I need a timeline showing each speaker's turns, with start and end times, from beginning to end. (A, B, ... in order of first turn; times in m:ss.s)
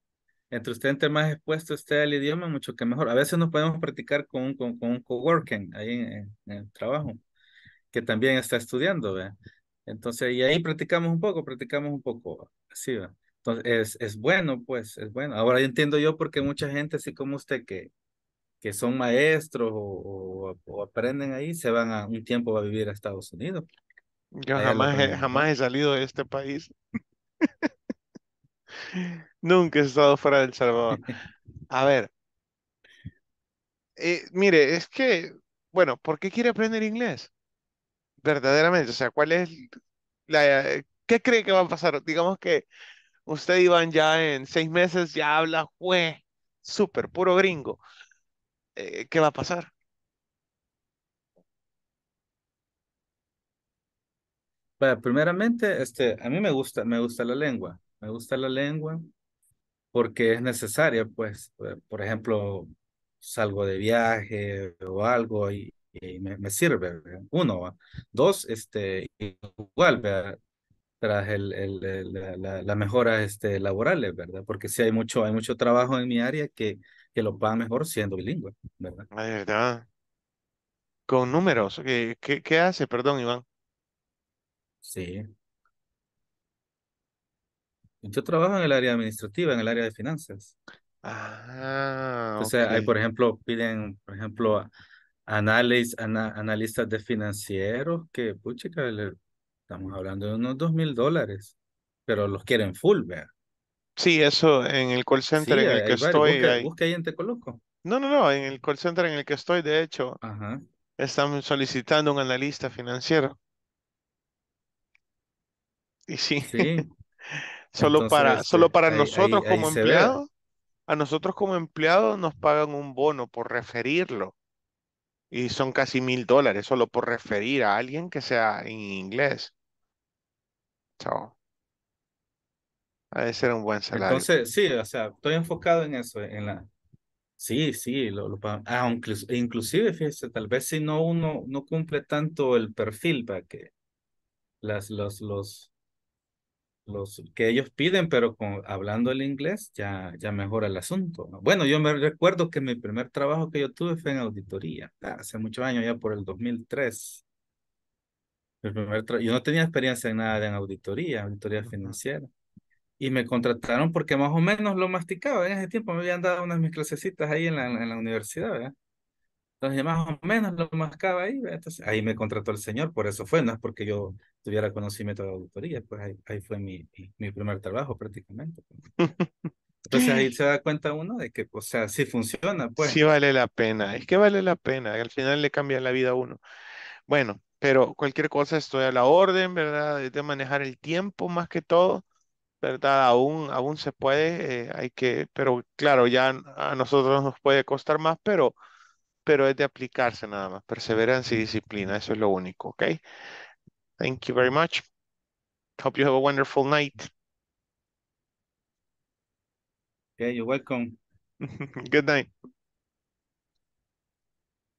0:00.5-0:07.2 A
0:07.9-0:17.9 A
0:18.6-0:23.7 A
0:24.4-0:26.7 B
0:24.5-0:25.5 A
0:27.4-0:27.7 B
0:28.8-0:31.0 B
0:31.7-0:32.1 B
0:34.0-0:37.3 B
0:38.2-0:39.8 B
0:40.3-0:42.6 B
0:43.3-0:47.8 B
0:48.8-0:49.7 B
0:54.8-0:59.1 A
0:59.9-1:10.4 A
1:11.0-1:19.1 A
1:19.1-1:19.8 B
1:21.1-1:23.4 B
1:24.8-1:25.3 A
1:28.0-1:30.5 A
1:31.0-1:32.9 B
1:32.4-1:34.7 A
1:35.3-1:39.2 A
1:39.7-1:41.5 A
1:42.1-1:43.3 A
1:44.0-1:46.7 B
1:45.3-1:47.6 A
1:47.8-1:50.2 B
1:50.2-1:50.6 A
1:51.0-1:53.4 B
1:56.1-2:00.3 B
1:56.4-1:56.9 A
1:57.8-2:00.2 A
2:00.9-2:04.3 B
2:05.3-2:09.5 B
2:11.0-2:11.3 B
2:13.1-2:14.3 B
2:13.9-2:16.7 A
2:17.4-2:23.7 A
2:24.6-2:25.7 A
2:26.9-2:37.2 A
2:38.6-2:42.3 A
2:43.0-2:48.7 A
2:49.6-2:58.7 A
2:59.0-3:00.3 B
2:59.8-3:03.0 A
3:02.8-3:06.4 B
3:07.1-3:12.0 B
3:12.6-3:18.5 B
3:19.2-3:23.0 B
3:24.0-3:24.8 B
3:25.8-3:27.1 B
3:30.2-3:31.0 A
3:31.4-3:32.3 B